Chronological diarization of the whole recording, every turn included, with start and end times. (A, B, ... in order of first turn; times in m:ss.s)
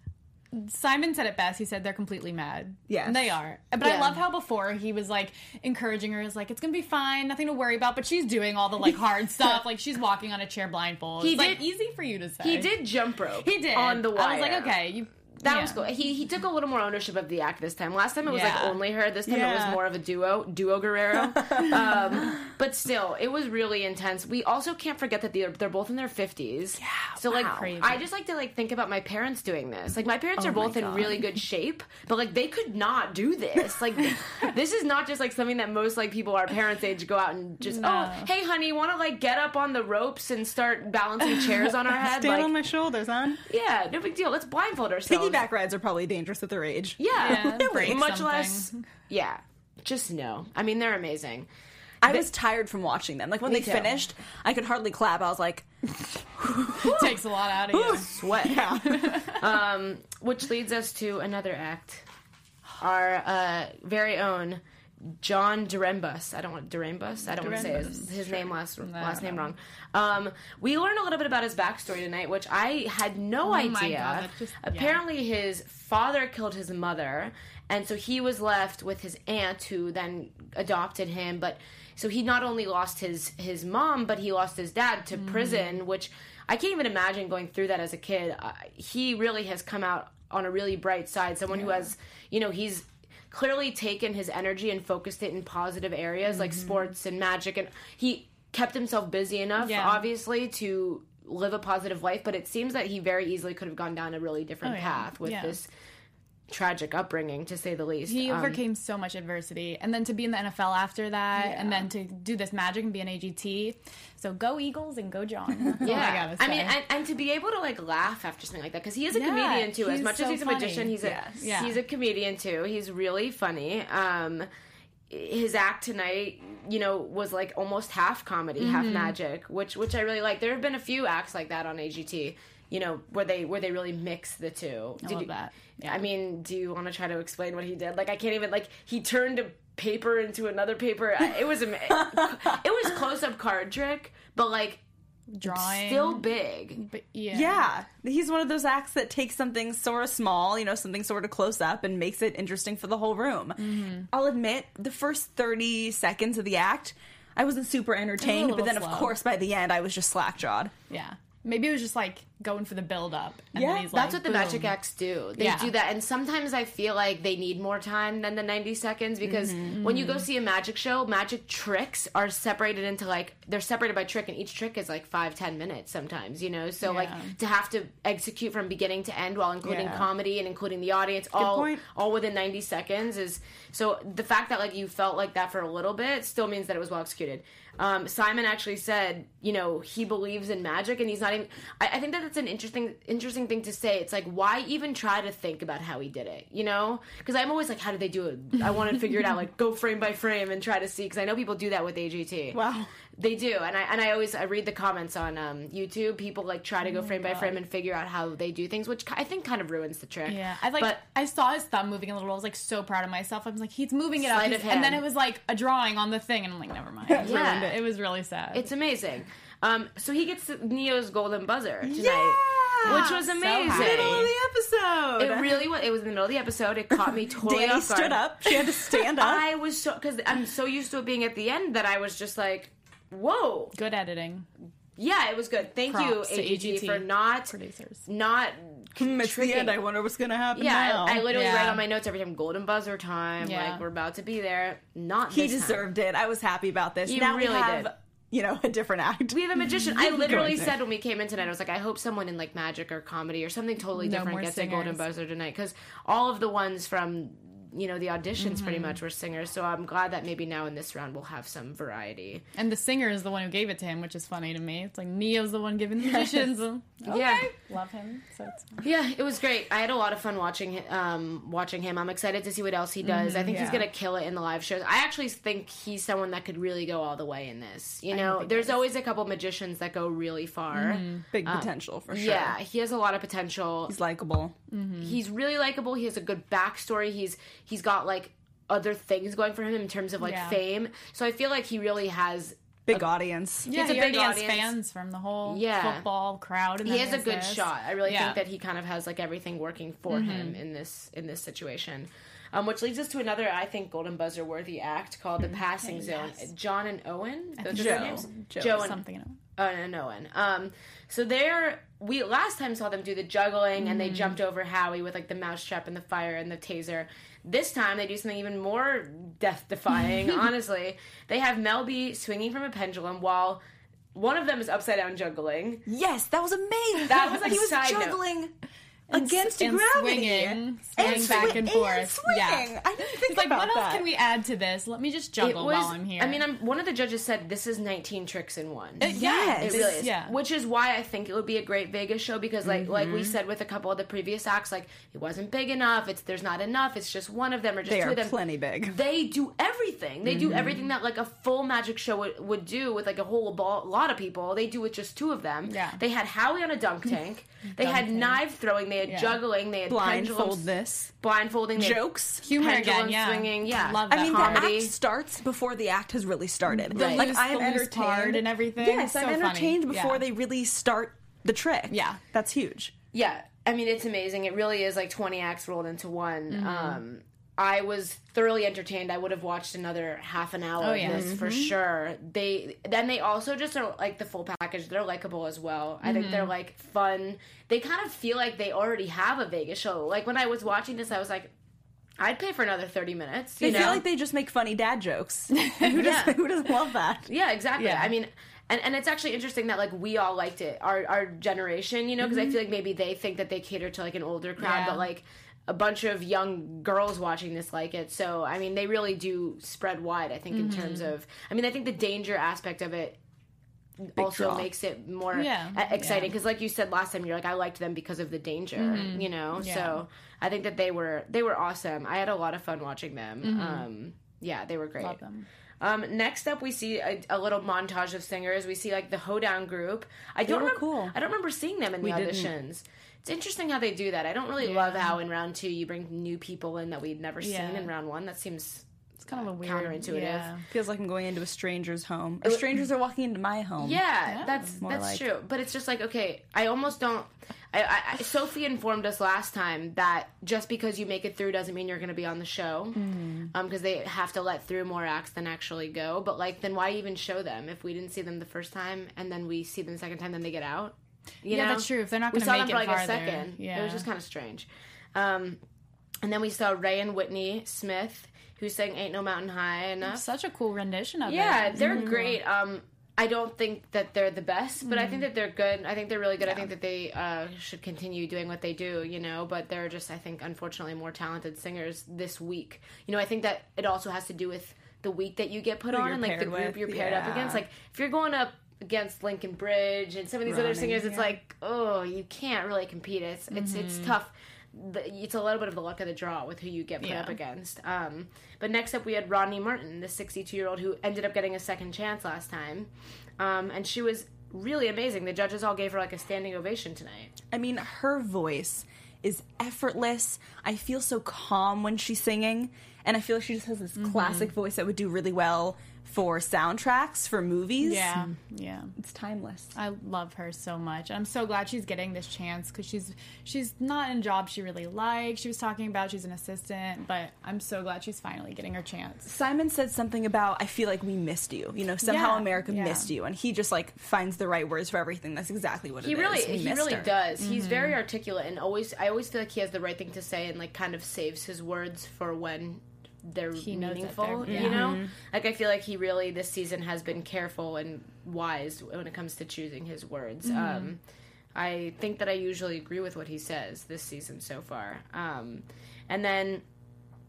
0:00.5-0:12.7 A
0:02.9-0:03.4 B
0:03.8-0:04.2 C
0:11.2-0:11.6 C
0:12.4-0:14.8 C
0:13.4-0:15.8 A
0:15.4-0:42.5 C
0:18.2-0:18.8 A
0:19.3-0:19.8 B
0:26.8-0:27.6 B
0:27.3-0:28.0 A
0:30.4-0:31.2 B
0:37.6-0:38.3 A
0:41.9-0:43.4 B
0:43.4-0:45.4 C
0:45.1-0:48.0 B
0:47.0-0:51.5 C
0:47.2-0:48.9 A
0:52.0-0:59.2 B
0:53.5-0:53.9 C
0:56.8-0:58.1 A
0:56.8-0:57.1 C
0:58.0-0:58.6 C
0:58.8-0:59.4 A
0:59.2-1:02.0 C
1:02.8-1:04.6 C
1:05.2-1:45.7 C
1:07.4-1:08.1 A
1:07.4-1:07.8 B
1:08.8-1:09.5 A
1:13.4-1:15.0 A
1:25.1-1:25.8 A
1:39.6-1:40.0 A
1:44.6-1:45.6 A
1:46.5-1:48.6 C
1:48.1-1:56.7 A
1:51.3-1:51.8 B
1:55.8-2:04.5 C
1:59.1-2:01.8 A
2:01.0-2:01.7 B
2:05.1-2:24.8 C
2:08.6-2:09.2 A
2:15.0-2:16.0 A
2:22.0-2:22.6 B
2:25.3-2:26.2 A
2:25.4-2:26.8 C
2:26.8-2:27.7 A
2:27.3-2:40.7 B
2:33.6-2:34.1 A
2:38.2-2:39.1 A
2:40.9-2:44.7 A
2:43.5-2:43.9 B
2:43.9-3:22.6 C
2:45.4-2:45.7 A
2:49.2-2:49.8 B
2:49.7-2:50.2 A
2:56.8-2:57.3 A
2:59.6-3:00.1 B
3:01.4-3:01.8 B
3:22.5-3:22.9 B
3:23.1-3:31.0 C
3:26.8-3:27.6 A
3:30.2-3:38.7 A
3:34.2-3:35.0 C
3:37.1-3:37.7 B
3:37.2-3:37.8 C
3:38.5-3:44.3 C
3:41.8-3:45.6 B
3:42.8-3:44.3 A
3:45.2-3:53.7 C
3:47.0-3:49.4 B
3:53.7-3:54.5 A
3:55.0-3:57.5 C
3:55.9-3:58.0 A
3:58.0-3:59.8 C
3:59.0-4:01.3 B
4:00.5-4:05.8 C
4:01.3-4:01.8 A
4:03.4-4:03.8 A
4:05.3-4:10.8 B
4:07.0-4:07.9 C
4:09.3-4:22.4 C
4:14.0-4:15.0 A
4:18.4-4:19.0 A
4:22.5-4:28.8 A
4:26.1-4:26.4 B
4:27.1-4:27.5 C
4:28.8-4:43.9 C
4:33.0-4:33.8 A
4:33.4-4:33.8 B
4:38.1-4:38.8 A
4:40.7-4:41.2 A
4:41.3-4:42.6 B
4:43.9-4:44.5 B
4:44.7-4:45.2 A
4:45.0-4:53.1 C
4:50.2-4:50.6 A
4:52.9-4:53.7 B
4:53.6-4:58.4 A
4:53.7-4:54.7 C
4:55.4-4:56.0 C
4:56.8-5:09.0 C
5:00.1-5:00.6 A
5:05.8-5:06.5 A
5:07.6-5:09.4 A
5:07.7-5:08.9 B
5:09.6-5:23.6 C
5:13.8-5:14.4 A
5:24.1-5:25.8 C
5:25.9-5:28.5 B
5:27.1-5:28.2 C
5:29.1-5:34.0 B
5:29.1-5:36.4 A
5:31.0-5:31.7 C
5:35.4-6:00.7 C
5:39.0-5:40.4 A
5:39.0-5:40.0 B
5:42.6-5:43.4 B
5:47.8-5:49.0 B
5:50.3-5:50.8 B
5:55.7-5:56.0 A
5:57.6-5:58.4 A
5:59.0-5:59.4 A
5:59.9-6:01.1 B
6:01.2-6:04.9 C
6:01.8-6:02.4 B
6:02.4-6:04.7 A
6:04.1-6:12.9 B
6:06.7-6:10.2 A
6:06.9-6:07.3 C
6:11.9-6:12.2 A
6:13.1-6:31.5 C
6:16.5-6:17.0 A
6:20.8-6:21.7 A
6:21.0-6:21.4 B
6:26.0-6:26.5 A
6:32.2-6:34.0 C
6:33.6-6:37.3 B
6:33.6-6:34.0 A
6:35.6-6:35.9 A
6:35.8-6:36.4 C
6:37.2-6:53.2 C
6:37.8-6:38.1 A
6:44.6-6:45.0 A
6:50.5-6:51.1 A
6:54.0-7:05.2 C
6:54.2-6:54.7 B
6:55.3-6:56.3 A
6:58.8-7:00.0 A
7:03.4-7:03.8 A
7:05.0-7:05.4 A
7:05.8-7:20.5 C
7:10.5-7:11.1 B
7:12.0-7:12.5 B
7:14.6-7:15.1 A
7:17.4-7:17.9 A
7:19.2-7:20.6 A
7:20.7-7:24.0 B
7:23.8-7:45.6 C
7:24.3-7:24.8 A
7:24.8-7:25.2 B
7:33.0-7:33.5 A
7:41.5-7:44.0 A
7:46.2-7:50.2 C
7:50.0-7:52.4 A
7:51.2-8:27.3 C
7:51.8-7:52.2 B
7:54.8-7:55.3 A
8:05.9-8:07.6 B
8:10.4-8:11.3 B
8:13.5-8:14.1 A
8:17.0-8:17.4 A
8:27.5-8:38.3 B
8:34.0-8:34.5 A
8:37.8-8:38.9 A
8:39.0-8:39.7 B
8:39.7-8:49.3 A
8:49.3-8:57.1 B
8:52.0-8:53.1 A
8:56.0-9:11.0 C
8:57.4-8:58.0 A
9:03.6-9:04.8 A
9:04.4-9:05.1 B
9:10.4-9:10.9 A
9:11.5-9:16.6 C